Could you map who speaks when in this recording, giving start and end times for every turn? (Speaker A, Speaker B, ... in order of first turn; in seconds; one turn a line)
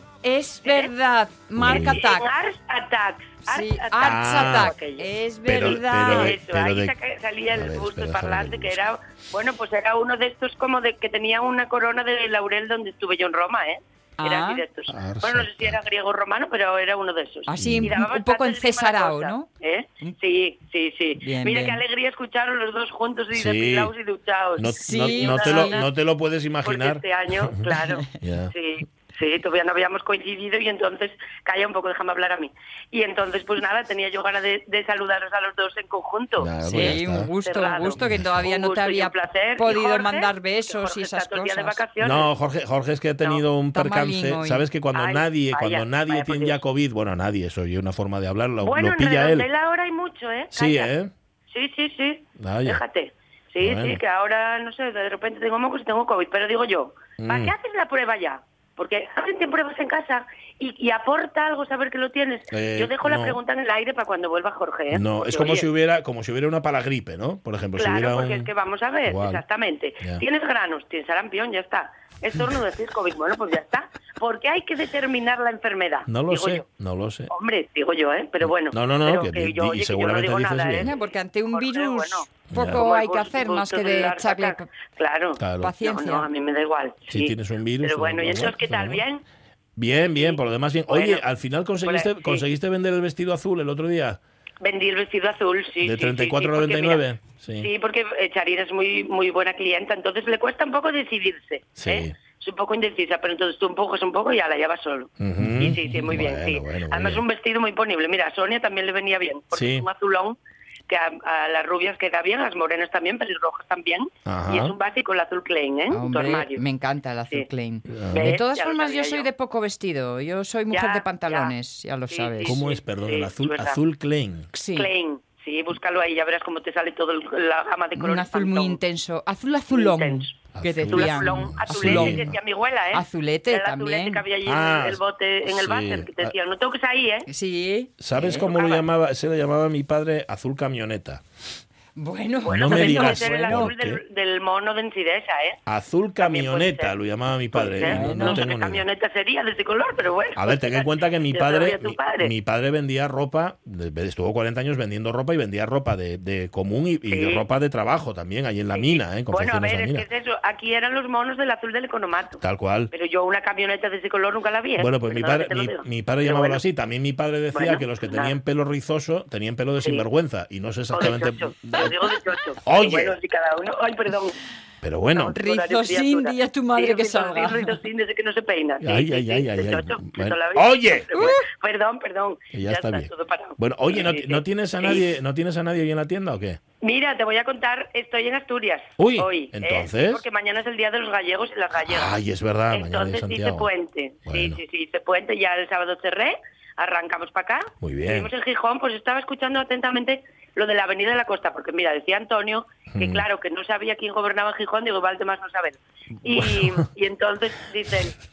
Speaker A: 0.2-2.3
Speaker B: 0.6-0.9
Speaker C: 1.6-2.0
Speaker B: 1.7-5.1
Speaker A: 3.5-6.3
Speaker C: 4.0-4.7
Speaker C: 5.5-6.9
Speaker B: 6.0-25.9
Speaker C: 7.5-8.8
Speaker A: 14.2-14.6
Speaker C: 14.9-15.8
Speaker A: 17.5-19.5
Speaker C: 17.6-18.0
Speaker A: 21.2-21.8
Speaker C: 23.3-23.9
Speaker C: 24.6-27.6
Speaker A: 24.8-25.8
Speaker B: 26.6-42.3
Speaker C: 28.2-28.5
Speaker C: 36.4-37.3
Speaker A: 36.6-41.8
Speaker C: 38.0-38.3
Speaker C: 42.0-49.5
Speaker A: 43.7-44.6
Speaker B: 44.9-46.6
Speaker B: 48.6-50.9
Speaker C: 50.5-51.1
Speaker B: 51.5-65.7
Speaker C: 52.4-52.8
Speaker C: 53.6-54.0
Speaker C: 57.2-57.5
Speaker C: 62.5-63.4
Speaker C: 64.9-68.5
Speaker B: 67.8-76.6
Speaker C: 69.0-69.4
Speaker C: 76.1-77.3
Speaker B: 77.3-89.2
Speaker C: 78.4-80.9
Speaker A: 80.8-84.7
Speaker C: 82.5-82.8
Speaker C: 85.4-85.7
Speaker A: 85.6-86.3
Speaker C: 87.1-89.0
Speaker C: 89.8-94.2
Speaker B: 90.2-91.2
Speaker B: 91.8-92.5
Speaker B: 94.6-97.0
Speaker C: 95.8-97.7
Speaker B: 97.6-110.4
Speaker C: 101.8-102.2
Speaker C: 105.2-107.2
Speaker C: 109.5-109.9
Speaker B: 110.9-116.6
Speaker C: 114.3-114.8
Speaker A: 115.9-122.6
Speaker C: 117.9-118.3
Speaker B: 118.1-119.3
Speaker B: 120.7-121.5
Speaker B: 122.1-123.8
Speaker C: 122.5-124.5
Speaker A: 124.5-124.9
Speaker B: 124.8-128.8
Speaker A: 128.0-132.3
Speaker B: 129.7-137.3
Speaker C: 130.5-132.4
Speaker A: 132.9-134.2
Speaker C: 134.4-136.3
Speaker A: 137.3-138.5
Speaker C: 138.0-141.2
Speaker B: 138.3-138.8
Speaker A: 142.0-143.7
Speaker B: 142.4-145.6
Speaker C: 142.5-144.0
Speaker C: 145.7-148.8
Speaker B: 146.2-147.0
Speaker B: 147.5-152.3
Speaker A: 147.8-148.5
Speaker C: 150.4-160.1
Speaker B: 157.1-157.4
Speaker B: 158.7-162.4
Speaker C: 162.4-162.9
Speaker B: 162.9-166.6
Speaker C: 164.8-171.9
Speaker B: 167.5-168.3
Speaker B: 170.9-174.4
Speaker C: 172.7-173.2
Speaker C: 174.8-175.4
Speaker B: 175.2-185.1
Speaker A: 175.3-177.8
Speaker C: 178.8-181.3
Speaker A: 181.1-181.4
Speaker C: 182.5-186.6
Speaker B: 186.8-192.1
Speaker C: 189.0-190.2
Speaker C: 191.8-193.7
Speaker B: 192.7-208.2
Speaker C: 194.3-194.6
Speaker C: 197.8-198.3
Speaker C: 202.9-203.2
Speaker C: 206.3-206.8